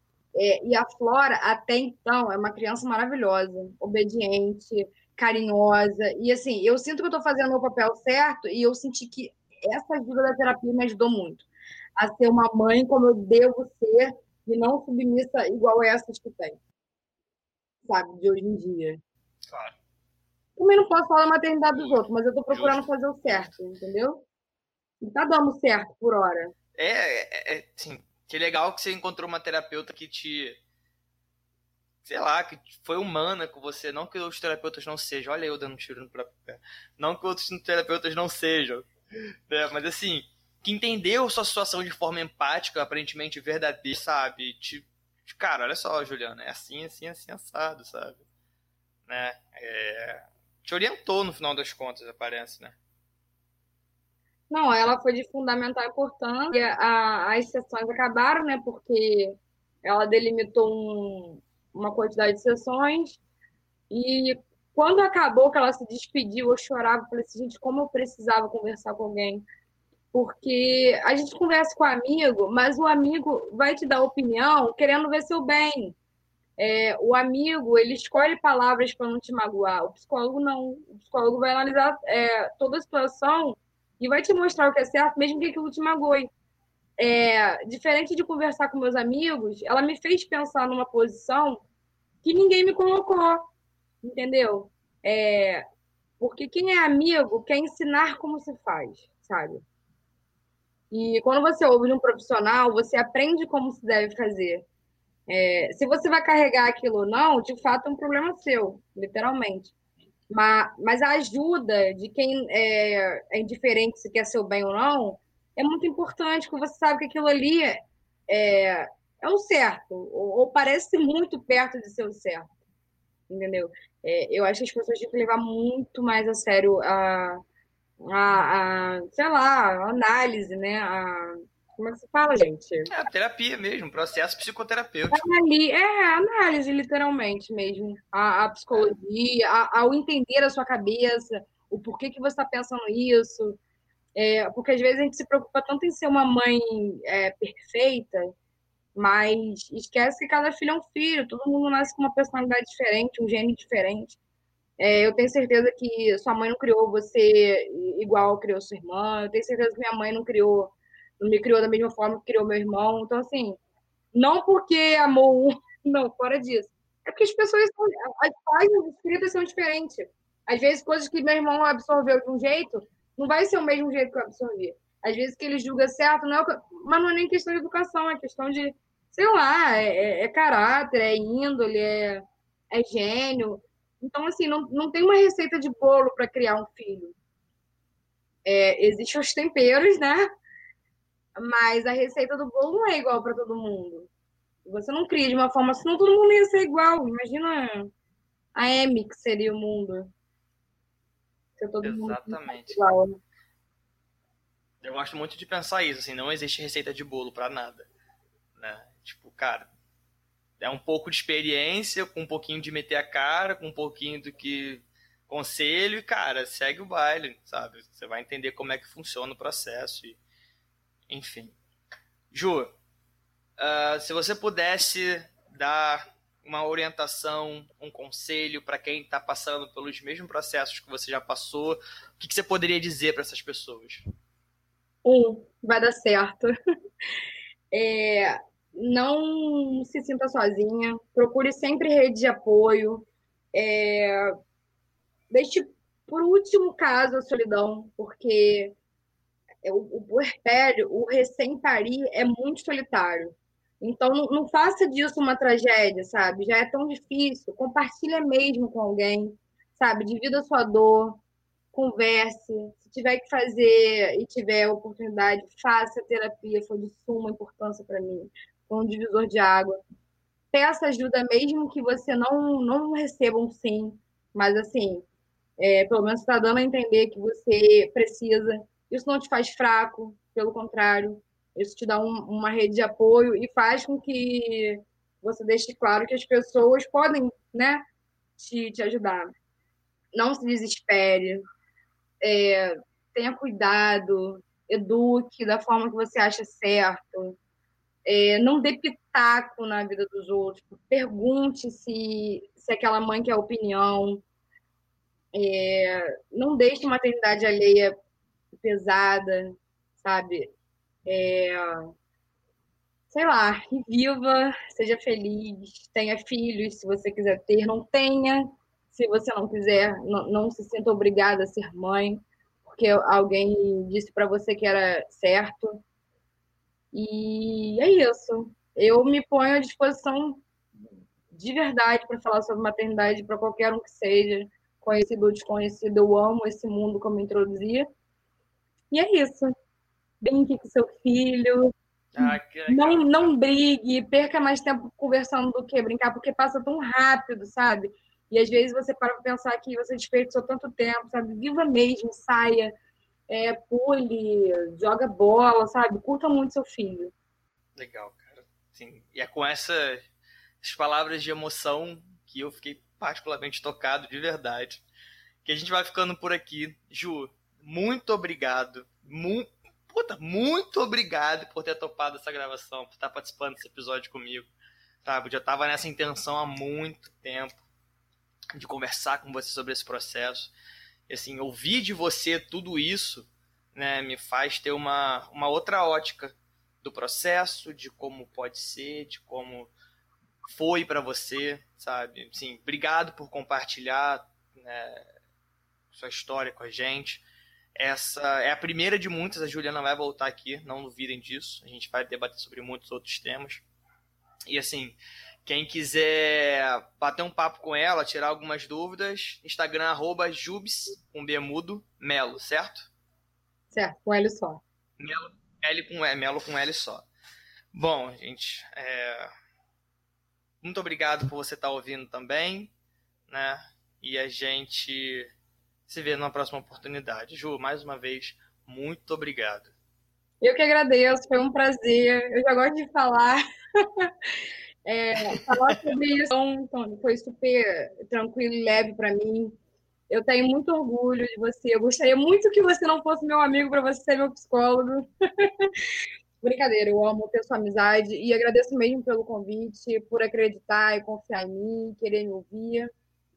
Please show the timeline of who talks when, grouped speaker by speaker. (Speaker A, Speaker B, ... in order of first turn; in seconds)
Speaker A: 0.3-16.6, 17.9-19.0, 20.6-24.2, 25.0-26.5, 54.5-63.2, 63.9-69.4, 70.1-76.0, 76.6-86.3, 87.0-91.6, 92.2-93.5, 94.0-95.6, 96.2-99.6, 100.9-104.6, 105.3-109.7, 110.3-122.5, 123.3-127.4, 128.0-132.9, 135.1-143.6, 144.1-148.3, 148.9-154.2, 154.8-163.6, 164.1-187.1, 188.4-190.2, 191.3-194.1, 194.6-197.9, 198.5-200.1, 201.6-203.2, 235.0-236.5, 237.7-244.3, 245.3-248.7, 249.6-261.2, 261.7-269.8, 270.5-275.0, 275.6-287.8, 288.4-289.3, 290.1-291.4, 292.2-297.4, 298.1-304.2, 305.3-307.9, 308.5-310.5, 311.1-311.9, 313.1-325.8, 326.9-330.4, 331.3-337.9, 338.9-339.5, 340.2-352.7, 353.3-357.1, 413.7-414.6, 430.4-434.1, 434.8-439.5, 440.1-445.7, 446.4-452.9
Speaker B: 19.5-19.8, 21.7-23.6, 26.8-30.6, 32.0-48.2, 49.1-52.8, 132.9-135.2, 201.8-202.8, 204.8-207.9, 208.6-209.7, 210.6-220.2, 221.1-221.6, 222.3-222.7, 223.6-234.1, 342.1-343.3, 357.8-360.0, 360.6-364.8, 365.4-374.5, 375.0-377.6, 378.5-380.5, 381.1-389.7, 390.4-395.1, 395.9-397.2, 397.8-403.6, 404.5-412.9, 415.0-417.1, 417.7-419.3, 420.6-422.7, 423.3-425.3, 425.9-429.7, 435.3-435.9